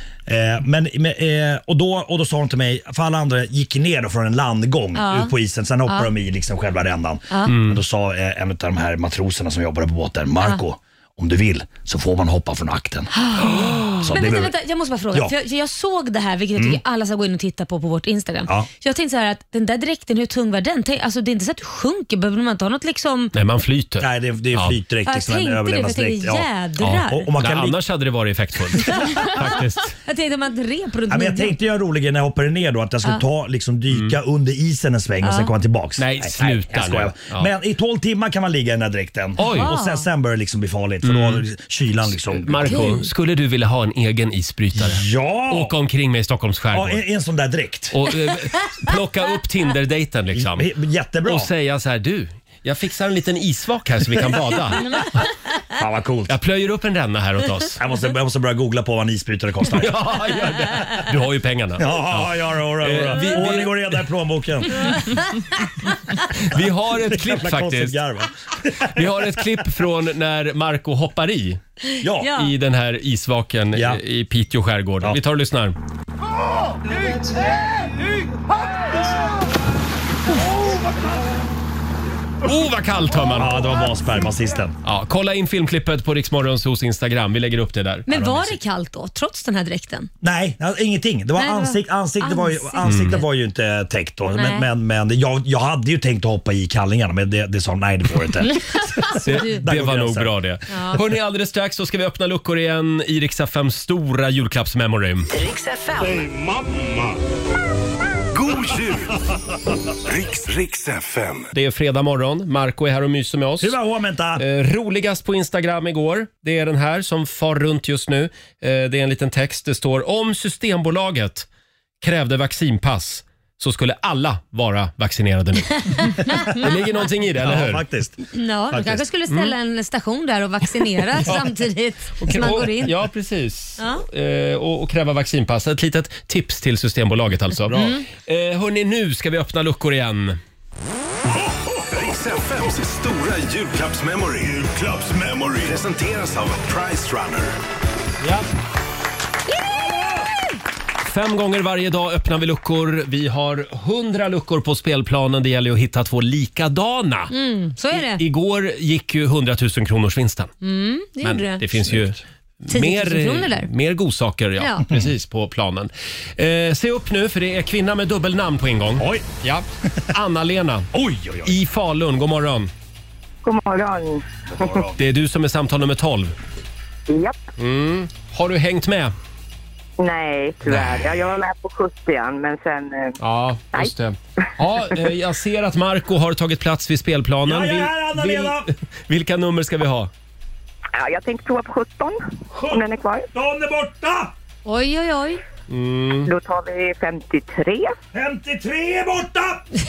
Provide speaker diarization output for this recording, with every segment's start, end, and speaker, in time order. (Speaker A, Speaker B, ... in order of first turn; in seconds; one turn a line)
Speaker A: 0.3-14.6
Speaker B: 5.0-5.3
Speaker C: 7.5-7.8
Speaker B: 13.2-23.3
Speaker A: 16.6-16.8
Speaker C: 23.3-24.8
Speaker A: 24.0-26.5
Speaker B: 25.1-27.3
Speaker C: 26.8-29.9
Speaker A: 27.1-27.8
Speaker B: 28.8-29.4
Speaker B: 30.1-31.5
Speaker A: 31.1-42.9
Speaker C: 33.9-34.2
Speaker B: 35.2-35.5
Speaker C: 36.0-37.5
Speaker C: 39.4-39.7
Speaker B: 39.4-40.1
Speaker C: 41.0-41.4
Speaker C: 42.1-47.0
Speaker B: 42.6-43.1
Speaker A: 44.8-45.7
Speaker A: 46.7-48.1
Speaker C: 47.9-50.7
Speaker A: 50.3-51.5
Speaker C: 51.2-55.2
Speaker A: 55.8-56.4
Speaker C: 56.3-57.8
Speaker A: 57.8-60.9
Speaker C: 59.7-64.0
Speaker A: 61.8-65.0
Speaker B: 64.8-65.2
Speaker C: 66.4-68.0
Speaker A: 66.5-69.5
Speaker C: 69.0-71.6
Speaker A: 72.0-72.4
Speaker B: 72.0-72.5
Speaker C: 72.4-75.8
Speaker A: 73.7-74.0
Speaker C: 82.4-83.8
Speaker A: 83.3-84.8
Speaker C: 84.8-88.6
Speaker B: 88.1-90.1
Speaker A: 90.2-100.4
Speaker B: 91.4-93.2
Speaker C: 92.8-93.2
Speaker B: 94.3-94.7
Speaker B: 99.1-99.6
Speaker C: 99.1-105.3
Speaker B: 100.7-101.0
Speaker B: 105.4-106.1
Speaker D: 108.3-109.2
Speaker D: 110.0-111.5
Speaker C: 111.5-113.8
Speaker A: 113.6-114.4
Speaker C: 114.4-121.5
Speaker C: 122.0-127.8
Speaker B: 126.0-126.7
Speaker A: 127.4-129.0
Speaker B: 128.3-132.9
Speaker C: 129.3-129.5
Speaker C: 132.2-140.4
Speaker B: 133.8-134.1
Speaker D: 141.7-147.6
Speaker C: 151.0-157.3
Speaker B: 157.3-158.2
Speaker C: 157.9-160.5
Speaker B: 160.6-161.6
Speaker C: 161.2-170.9
Speaker B: 162.7-163.7
Speaker B: 164.6-164.9
Speaker A: 169.0-169.3
Speaker A: 170.9-171.6
Speaker C: 171.4-172.7
Speaker E: 173.4-174.8
Speaker A: 174.5-175.0
Speaker C: 175.0-176.3
Speaker E: 177.1-177.4
Speaker C: 177.6-179.1
Speaker E: 180.0-183.2
Speaker C: 180.7-181.1
Speaker C: 183.2-190.1
Speaker A: 187.5-188.7
Speaker E: 190.9-193.3
Speaker A: 192.5-194.3
Speaker B: 194.6-195.4
Speaker C: 195.7-196.3
Speaker E: 196.2-197.9
Speaker A: 198.1-199.6